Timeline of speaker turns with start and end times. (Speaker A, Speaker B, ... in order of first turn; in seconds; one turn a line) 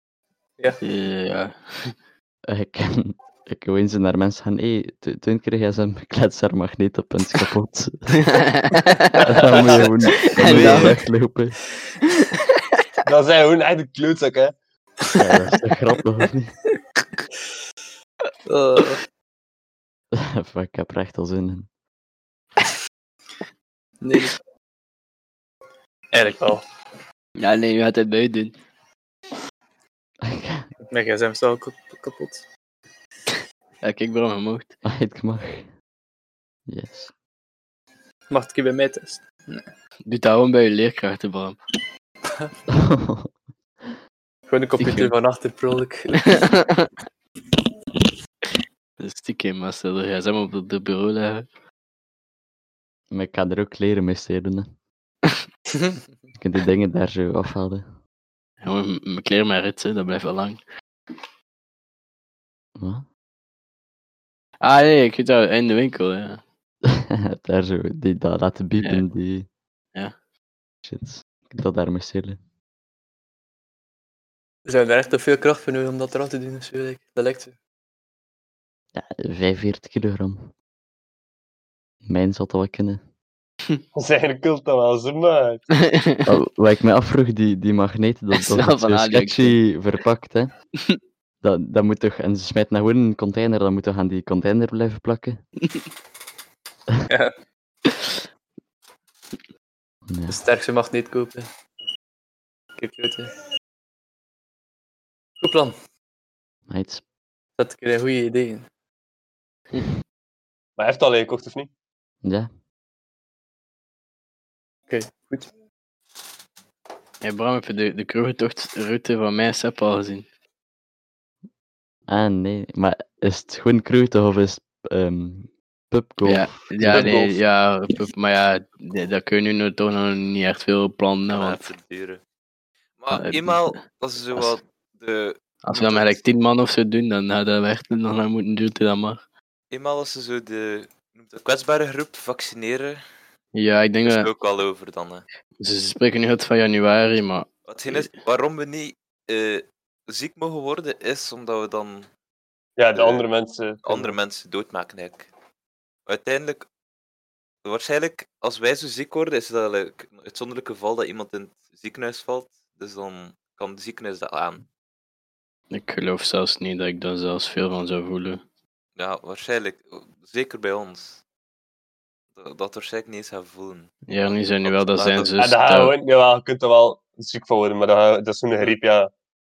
Speaker A: 0.8-1.9
Speaker B: 2.5-8.2
Speaker A: 8.2-9.2
Speaker C: 9.2-9.9
Speaker B: 9.2-11.6
Speaker A: 10.1-11.0
Speaker C: 13.0-14.5
Speaker B: 15.2-16.5
Speaker D: 18.4-19.0
Speaker B: 20.1-21.7
Speaker D: 24.0-24.3
Speaker D: 26.1-26.6
Speaker A: 27.4-28.6
Speaker B: 30.2-30.7
Speaker D: 30.9-32.4
Speaker A: 33.8-34.7
Speaker B: 34.8-35.7
Speaker B: 36.7-37.1
Speaker D: 38.3-39.7
Speaker A: 40.0-41.6
Speaker B: 42.7-43.3
Speaker D: 44.5-46.4
Speaker A: 44.8-45.1
Speaker A: 46.4-46.9
Speaker A: 49.0-51.5
Speaker B: 53.1-54.7
Speaker B: 56.4-57.9
Speaker A: 58.6-60.6
Speaker B: 62.8-63.0
Speaker A: 64.6-66.4
Speaker B: 66.9-69.5
Speaker B: 70.8-72.4
Speaker D: 74.7-77.5
Speaker B: 78.9-80.5
Speaker B: 82.1-83.0
Speaker C: 83.9-85.7
Speaker A: 85.7-86.2
Speaker B: 86.2-90.5
Speaker A: 88.3-89.6
Speaker B: 91.4-95.4
Speaker D: 97.1-97.3
Speaker A: 97.8-98.1
Speaker B: 100.1-100.4
Speaker D: 100.3-101.5
Speaker D: 102.8-103.3
Speaker D: 105.4-105.7
Speaker B: 106.7-107.0
Speaker D: 107.6-108.7
Speaker C: 110.8-111.7
Speaker B: 112.2-112.5
Speaker D: 114.9-115.5
Speaker A: 117.2-120.2
Speaker B: 122.1-127.1
Speaker A: 126.2-131.7
Speaker C: 126.8-127.3
Speaker E: 131.3-132.2
Speaker E: 133.0-136.2
Speaker A: 133.1-133.8
Speaker A: 135.6-139.2
Speaker E: 139.7-143.0
Speaker A: 143.5-144.3
Speaker E: 144.0-145.3
Speaker A: 145.6-148.1
Speaker E: 147.7-152.1
Speaker C: 152.8-154.2
Speaker E: 152.9-153.2
Speaker E: 153.8-155.3
Speaker E: 156.1-156.7
Speaker E: 157.6-164.7
Speaker A: 165.7-168.4
Speaker E: 169.0-171.2
Speaker E: 172.3-173.9
Speaker A: 174.1-175.9
Speaker E: 174.6-175.3
Speaker C: 175.4-179.1